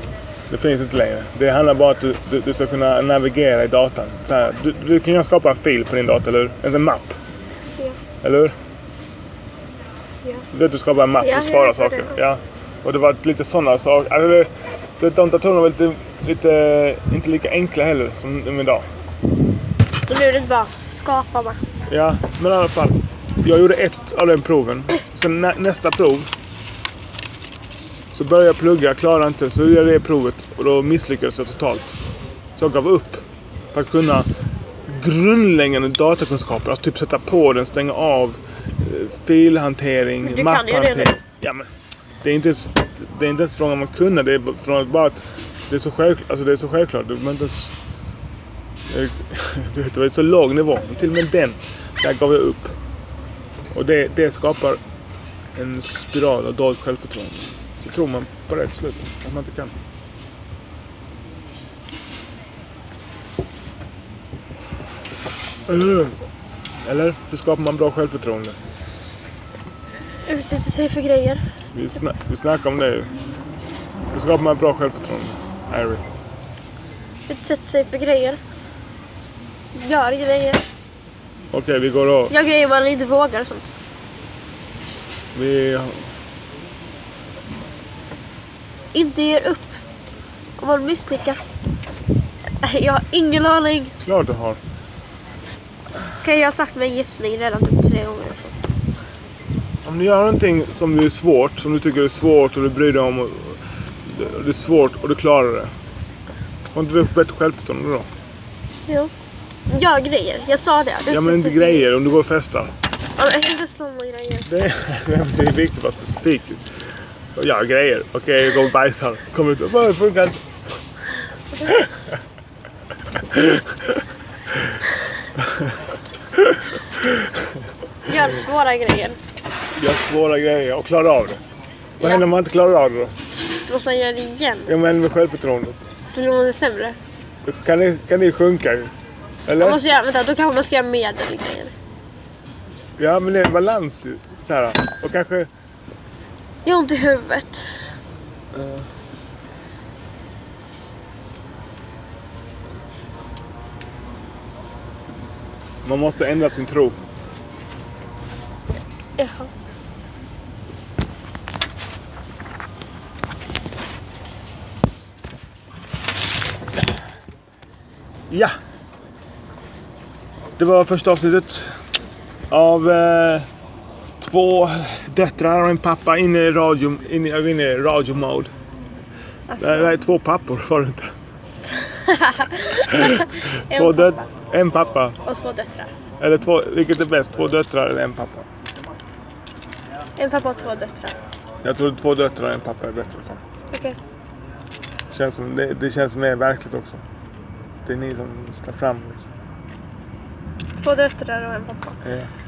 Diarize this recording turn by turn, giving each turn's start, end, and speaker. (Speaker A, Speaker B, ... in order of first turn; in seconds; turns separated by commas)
Speaker A: 0.5-7.2, Speaker A: 8.2-8.5, Speaker A: 10.5-18.9, Speaker B: 11.2-12.2, Speaker B: 20.1-21.6, Speaker A: 21.9-26.3, Speaker A: 28.1-31.9, Speaker A: 32.6-34.3, Speaker A: 34.9-41.7, Speaker B: 40.2-41.1, Speaker A: 42.2-47.7, Speaker A: 48.9-52.8, Speaker A: 53.7-54.8, Speaker A: 55.5-59.7, Speaker A: 65.7-66.2, Speaker A: 66.8-68.6, Speaker B: 70.2-71.4, Speaker A: 71.7-73.1, Speaker A: 74.1-76.0, Speaker B: 77.3-78.4, Speaker B: 79.7-80.6, Speaker A: 81.5-82.3, Speaker B: 82.3-83.7, Speaker A: 85.3-86.1, Speaker B: 88.9-89.8, Speaker B: 90.6-91.6, Speaker B: 92.6-93.9, Speaker A: 94.0-94.6, Speaker B: 96.2-98.6, Speaker A: 99.8-105.7, Speaker A: 106.7-108.1, Speaker B: 109.7-111.9, Speaker A: 111.1-112.7, Speaker B: 113.2-114.5, Speaker A: 114.5-116.6, Speaker A: 117.3-120.4, Speaker A: 121.6-122.0, Speaker A: 123.1-124.0, Speaker A: 124.5-124.8, Speaker A: 125.4-125.7, Speaker A: 126.3-127.5, Speaker B: 128.1-129.2, Speaker A: 129.8-131.4, Speaker B: 132.0-132.2, Speaker A: 132.0-133.1, Speaker B: 133.7-134.7, Speaker A: 134.7-135.8, Speaker B: 136.1-137.0, Speaker A: 137.4-138.9, Speaker A: 139.5-139.8, Speaker B: 139.6-141.7, Speaker A: 143.0-145.5, Speaker B: 146.6-147.6, Speaker A: 148.5-148.9, Speaker A: 155.8-157.0, Speaker B: 159.2-159.5, Speaker A: 168.3-168.5, Speaker A: 170.6-171.7, Speaker A: 172.5-173.5, Speaker A: 174.2-178.5, Speaker B: 179.5-179.9, Speaker A: 179.6-181.1, Speaker B: 181.8-184.2, Speaker A: 182.7-185.2, Speaker B: 185.2-185.9, Speaker A: 186.2-188.5, Speaker B: 190.2-191.2, Speaker A: 191.6-193.4, Speaker B: 193.7-194.0, Speaker A: 195.1-197.0, Speaker A: 197.8-199.3, Speaker B: 200.8-202.0, Speaker A: 202.0-202.3